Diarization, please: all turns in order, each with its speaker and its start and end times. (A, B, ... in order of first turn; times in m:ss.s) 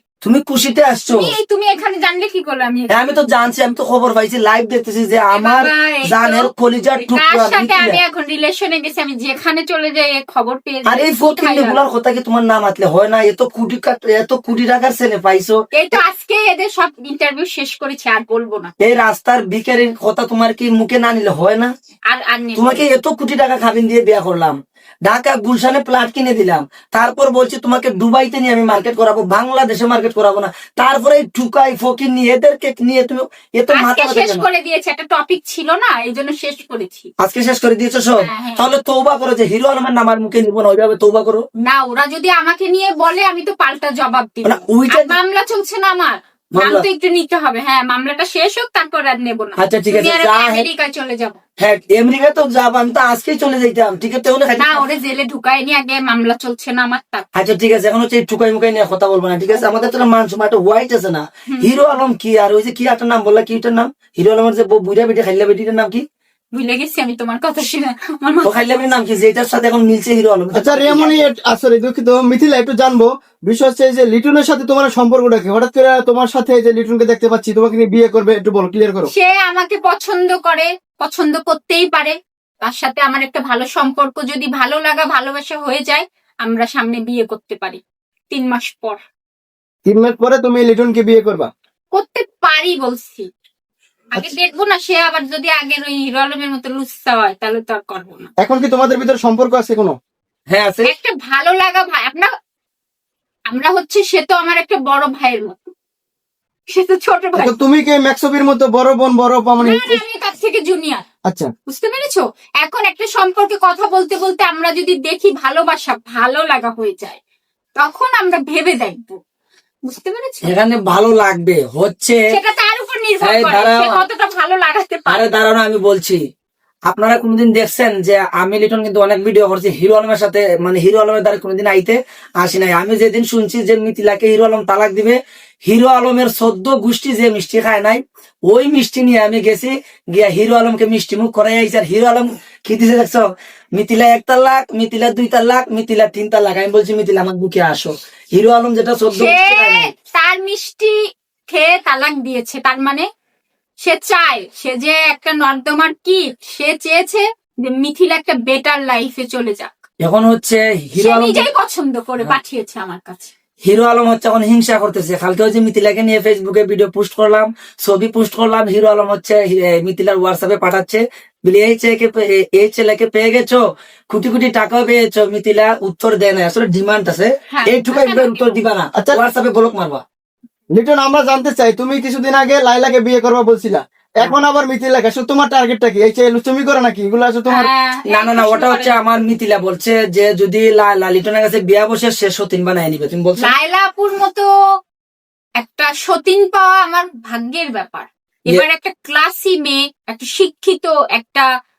0:00.2-0:01.3 A
0:01.1-0:03.2 B
0:02.9-0:08.0 A
0:05.3-0:11.8 B
0:10.9-0:15.6 A
0:15.7-0:18.7 B
0:18.8-0:21.7 A
0:22.1-0:22.9 B
0:22.6-0:34.4 A
0:33.7-0:37.1 B
0:37.2-0:41.4 A
0:38.2-0:38.7 B
0:41.6-0:51.4 B
0:44.4-0:45.2 A
0:46.5-0:46.8 A
0:49.6-0:50.7 A
0:51.6-0:54.8 A
0:54.6-0:57.2 B
0:57.4-1:06.0 A
1:06.5-1:08.9 B
1:08.4-1:11.1 A
1:10.5-1:19.1 C
1:19.1-1:29.0 B
1:29.8-1:31.5 C
1:32.0-1:33.3 B
1:34.1-1:38.3 B
1:38.4-1:40.0 C
1:40.5-1:40.9 A
1:40.8-1:42.3 B
1:43.5-1:45.7 B
1:46.7-1:47.5 B
1:47.4-1:50.0 C
1:49.6-1:51.0 B
1:51.7-1:57.2 B
1:57.8-1:59.2 B
1:59.9-2:00.5 B
2:00.4-2:02.2 A
2:02.3-2:05.3 B
2:03.2-2:04.0 A
2:05.1-2:06.2 A
2:06.9-2:29.9 A
2:29.1-2:31.0 B
2:31.5-2:33.1 B
2:33.8-2:39.7 B
2:40.0-2:41.5 A
2:41.0-2:43.3 B
2:43.6-3:00.0 A
2:57.5-2:58.6 B
2:59.0-2:59.2 C
3:00.8-3:07.7 C
3:07.5-3:09.0 B
3:08.1-3:13.5 A
3:13.4-3:14.5 B
3:15.6-3:21.5 B